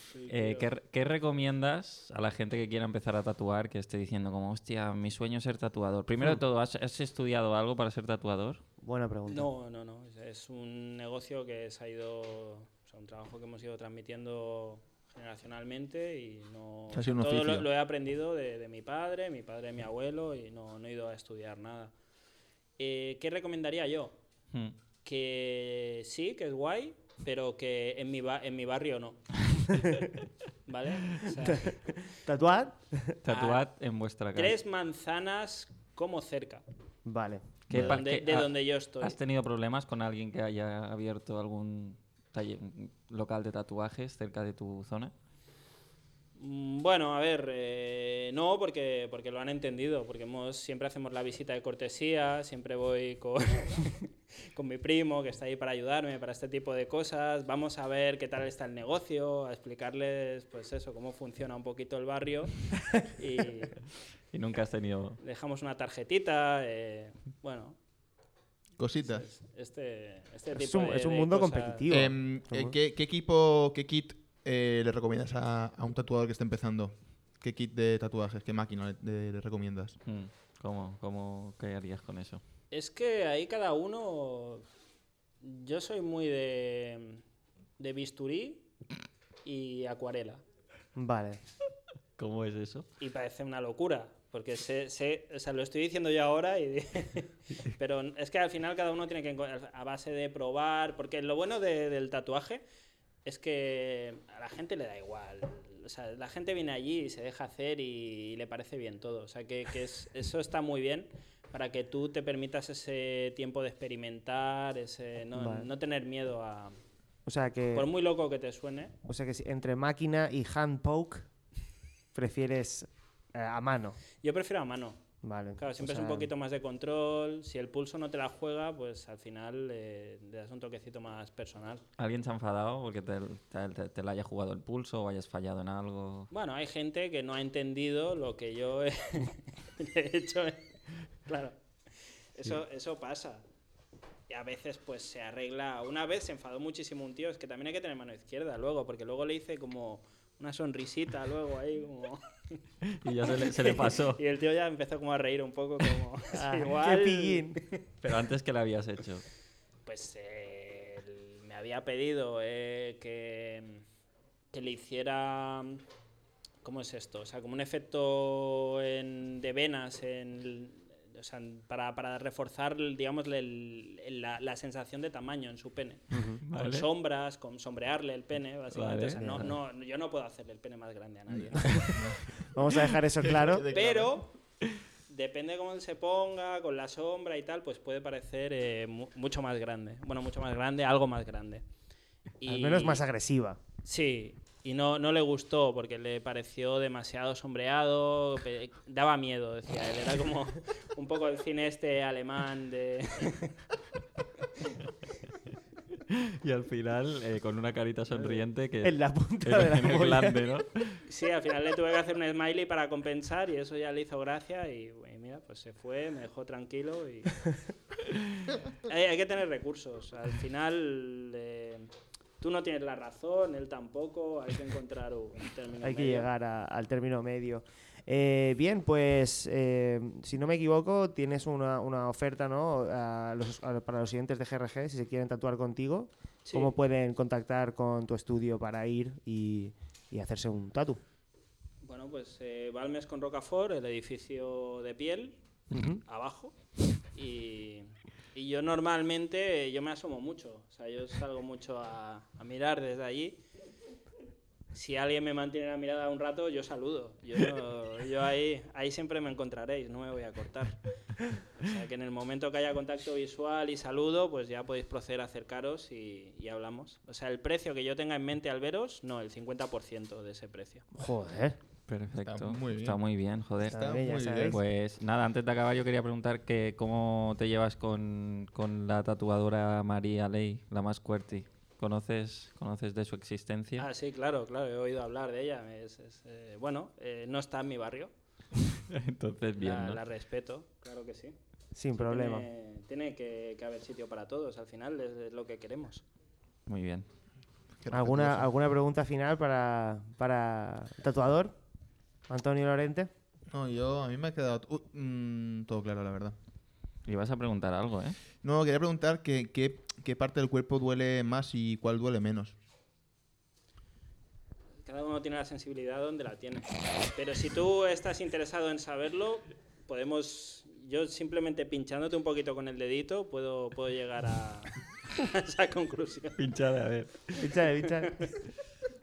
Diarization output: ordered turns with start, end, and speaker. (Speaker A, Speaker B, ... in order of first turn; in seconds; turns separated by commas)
Speaker A: 0.1-0.7, Speaker B: 0.3-8.6, Speaker C: 8.8-9.5, Speaker A: 9.3-21.9, Speaker D: 16.9-17.7, Speaker A: 22.8-24.1, Speaker A: 25.0-29.3, Speaker A: 30.6-32.0, Speaker C: 31.7-33.1, Speaker B: 33.2-34.5, Speaker A: 33.3-33.6, Speaker A: 34.3-36.6, Speaker C: 37.0-37.4, Speaker B: 37.7-45.1, Speaker D: 37.7-38.0, Speaker A: 37.7-39.1, Speaker A: 46.4-63.8, Speaker B: 64.3-65.2, Speaker A: 65.2-67.8, Speaker D: 68.8-69.2, Speaker A: 69.0-71.8, Speaker C: 70.5-72.7, Speaker D: 71.9-80.0, Speaker B: 80.0-82.4, Speaker A: 82.7-84.6, Speaker A: 85.4-87.2, Speaker A: 87.8-88.6, Speaker A: 89.4-90.4, Speaker C: 91.0-91.4, Speaker B: 92.2-92.8, Speaker A: 93.0-102.6, Speaker A: 103.2-116.8, Speaker C: 115.3-115.7, Speaker C: 117.2-117.9, Speaker A: 117.7-118.9, Speaker C: 119.0-121.3, Speaker C: 122.1-124.0, Speaker A: 124.2-125.0, Speaker C: 125.2-126.3, Speaker A: 125.6-131.8, Speaker B: 132.0-136.3, Speaker A: 136.3-140.6, Speaker A: 141.3-141.6, Speaker A: 142.3-143.4, Speaker A: 144.3-152.6, Speaker B: 152.9-154.2, Speaker A: 153.3-157.8, Speaker C: 156.3-157.6, Speaker B: 158.0-159.2, Speaker A: 159.8-163.8, Speaker A: 164.5-165.8, Speaker A: 166.6-181.9, Speaker C: 176.1-176.4, Speaker B: 176.4-176.9, Speaker B: 178.7-179.6, Speaker D: 181.3-182.4, Speaker C: 182.5-183.7, Speaker D: 183.3-184.3, Speaker A: 183.7-184.3, Speaker A: 185.1-191.6, Speaker A: 192.4-193.0, Speaker C: 192.5-193.6, Speaker A: 193.8-203.6, Speaker B: 206.4-211.0, Speaker A: 208.1-208.4, Speaker C: 208.8-210.4, Speaker A: 211.1-217.5, Speaker A: 218.9-226.3, Speaker C: 225.8-241.0, Speaker A: 236.4-236.7, Speaker A: 241.8-245.4, Speaker C: 245.7-246.0, Speaker A: 246.0-246.5, Speaker A: 247.1-253.4, Speaker A: 254.7-260.8, Speaker A: 261.6-270.9, Speaker C: 270.9-271.6, Speaker B: 271.9-273.8, Speaker D: 272.2-273.0, Speaker D: 273.6-274.6, Speaker C: 273.6-274.6, Speaker B: 274.4-283.9, Speaker A: 283.8-288.1, Speaker B: 288.9-290.0, Speaker A: 289.6-291.4, Speaker C: 291.7-292.4, Speaker A: 291.9-296.0, Speaker B: 296.7-297.1, Speaker D: 297.8-298.5, Speaker C: 297.9-301.5, Speaker C: 302.3-303.1, Speaker D: 303.5-306.4, Speaker B: 307.1-308.1, Speaker D: 308.4-312.5, Speaker A: 314.9-326.4, Speaker B: 326.4-327.4, Speaker C: 327.4-328.3